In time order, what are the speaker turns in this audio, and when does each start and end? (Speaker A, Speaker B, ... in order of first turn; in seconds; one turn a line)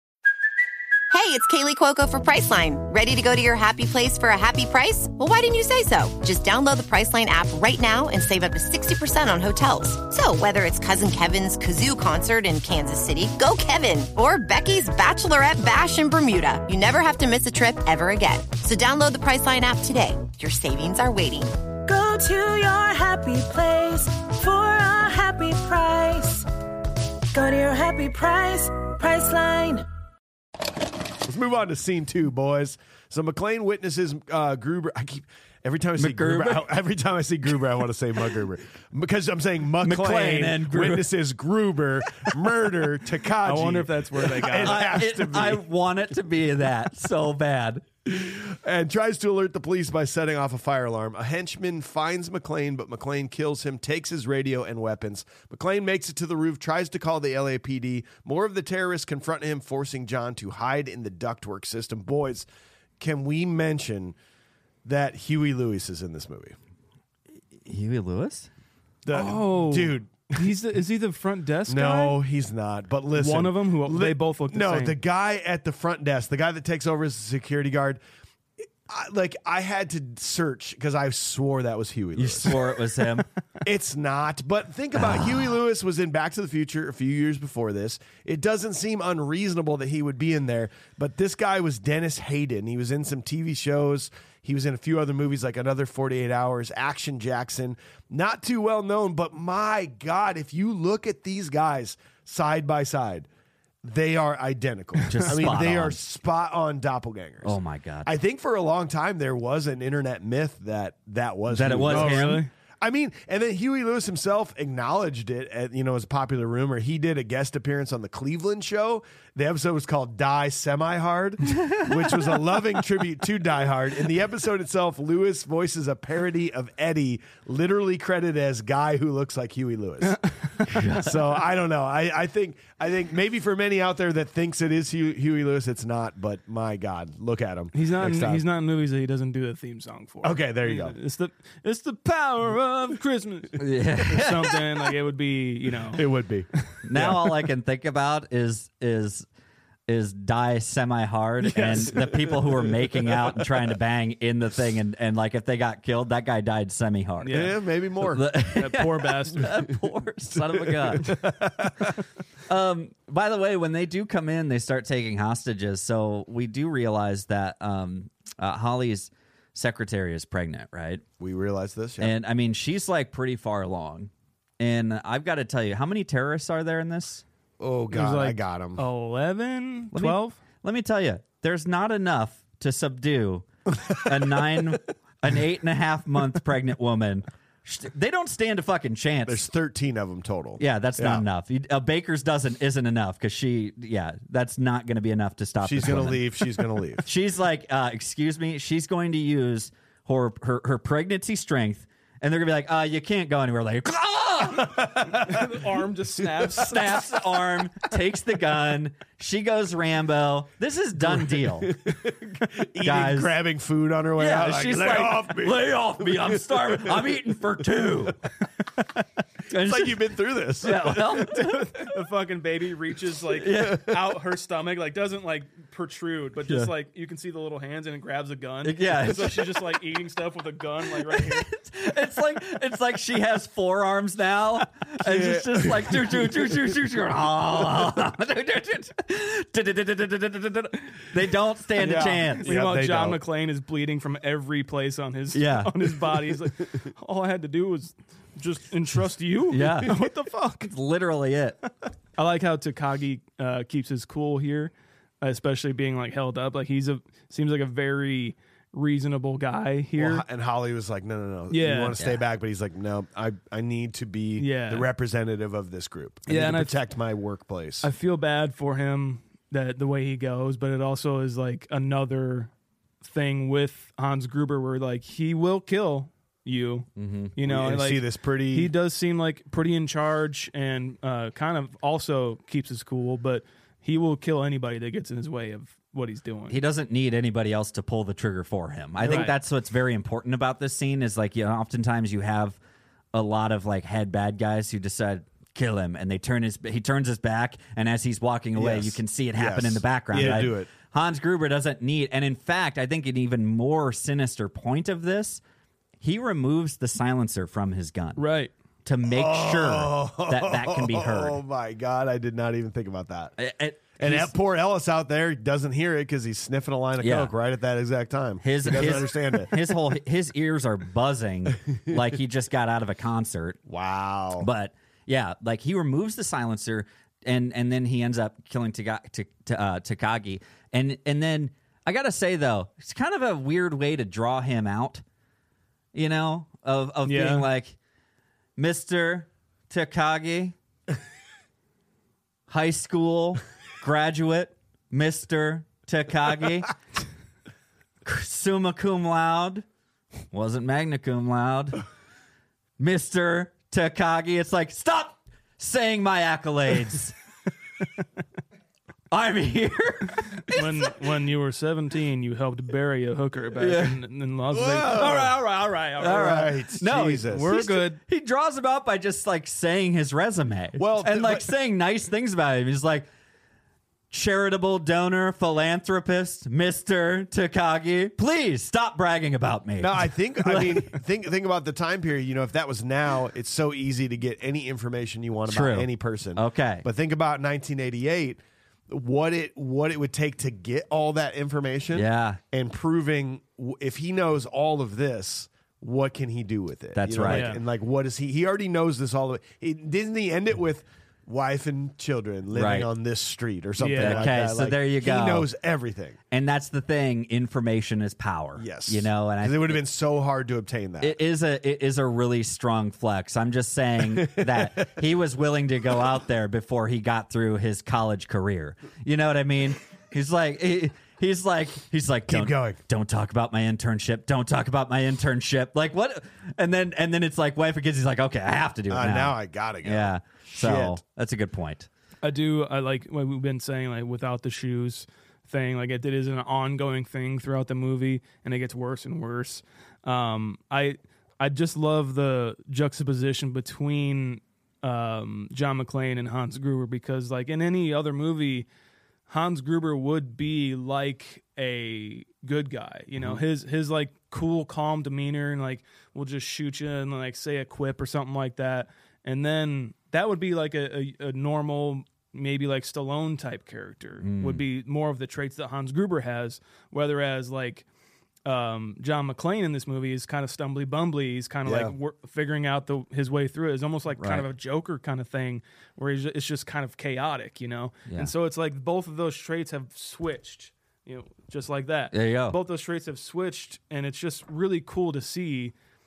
Speaker A: 1.1-21.5
Speaker B: 21.9-26.5
Speaker B: 27.3-29.9
Speaker C: 31.2-45.6
Speaker D: 36.0-36.6
Speaker D: 39.8-41.1
Speaker E: 43.4-45.0
Speaker D: 44.5-47.8
Speaker C: 48.1-62.5
Speaker C: 63.0-64.2
Speaker C: 64.8-66.6
Speaker D: 67.7-68.5
Speaker C: 69.0-70.5
Speaker E: 69.1-72.2
Speaker C: 71.7-78.0
Speaker E: 73.2-75.0
Speaker C: 78.9-82.6
Speaker D: 82.2-83.3
Speaker C: 83.6-103.3
Speaker C: 103.8-130.2
Speaker D: 105.1-106.0
Speaker E: 105.1-105.4
Speaker D: 107.4-108.1
Speaker D: 111.5-112.5
Speaker E: 111.8-112.5
Speaker E: 130.1-130.8
Speaker D: 130.7-131.2
Speaker C: 130.8-138.4
Speaker E: 137.7-146.1
Speaker C: 140.2-141.0
Speaker D: 143.6-144.9
Speaker C: 145.9-147.2
Speaker D: 146.8-149.2
Speaker D: 149.9-157.5
Speaker E: 151.5-152.3
Speaker E: 157.2-157.6
Speaker C: 157.3-158.2
Speaker D: 158.1-161.2
Speaker E: 158.6-159.5
Speaker C: 160.3-161.9
Speaker D: 162.5-171.0
Speaker C: 171.2-172.1
Speaker D: 172.0-177.2
Speaker C: 177.6-178.8
Speaker E: 177.9-180.4
Speaker D: 179.9-189.5
Speaker C: 189.3-191.2
Speaker D: 190.6-196.3
Speaker C: 195.6-197.1
Speaker D: 197.1-205.0
Speaker E: 205.1-207.1
Speaker D: 206.6-211.8
Speaker C: 211.0-217.1
Speaker D: 212.8-213.3
Speaker D: 214.2-218.2
Speaker D: 219.5-220.1
Speaker C: 219.5-221.3
Speaker D: 220.6-221.9
Speaker E: 221.3-231.5
Speaker D: 223.4-224.0
Speaker D: 228.6-229.7
Speaker D: 231.0-242.6
Speaker C: 235.1-235.9
Speaker C: 241.8-243.2
Speaker E: 242.4-250.7
Speaker D: 245.3-246.0
Speaker D: 249.5-250.1
Speaker D: 250.7-251.6
Speaker E: 252.2-260.2
Speaker C: 260.0-267.9
Speaker E: 261.5-262.0
Speaker E: 264.4-264.9
Speaker E: 266.3-266.8
Speaker E: 267.8-272.5
Speaker E: 273.0-286.6
Speaker D: 277.0-277.3
Speaker C: 277.4-278.7
Speaker D: 286.5-292.6
Speaker E: 289.0-289.4
Speaker D: 293.1-305.4
Speaker C: 298.6-300.7
Speaker D: 306.0-308.2
Speaker E: 308.2-308.5
Speaker D: 308.9-311.4
Speaker C: 309.1-313.3
Speaker D: 313.4-314.3
Speaker C: 314.0-319.6
Speaker D: 317.0-317.3
Speaker D: 318.4-323.6
Speaker C: 323.7-324.5
Speaker D: 324.4-335.0
Speaker D: 335.9-337.8
Speaker E: 337.1-337.5
Speaker D: 338.6-340.6
Speaker D: 342.5-346.7
Speaker D: 348.1-349.6
Speaker D: 350.3-351.8
Speaker D: 352.8-357.2
Speaker D: 359.1-360.9
Speaker E: 360.5-366.5
Speaker D: 363.6-364.0
Speaker C: 364.5-365.4
Speaker D: 366.0-373.1
Speaker C: 366.1-367.6
Speaker E: 367.2-368.0
Speaker C: 370.8-371.5
Speaker D: 374.1-380.9
Speaker C: 379.8-406.2
Speaker D: 385.5-386.9
Speaker D: 391.9-392.4
Speaker D: 397.0-397.6
Speaker E: 397.2-397.6
Speaker D: 402.5-402.9
Speaker E: 403.8-404.3
Speaker D: 404.0-405.5
Speaker D: 406.3-409.8
Speaker C: 408.6-411.2
Speaker D: 411.0-431.9
Speaker C: 414.1-414.9
Speaker C: 422.3-422.8
Speaker C: 428.9-431.0
Speaker E: 432.2-448.7
Speaker E: 449.3-467.9
Speaker D: 464.2-464.6
Speaker E: 468.4-485.7
Speaker C: 471.7-471.9
Speaker D: 474.2-474.5
Speaker D: 482.1-482.6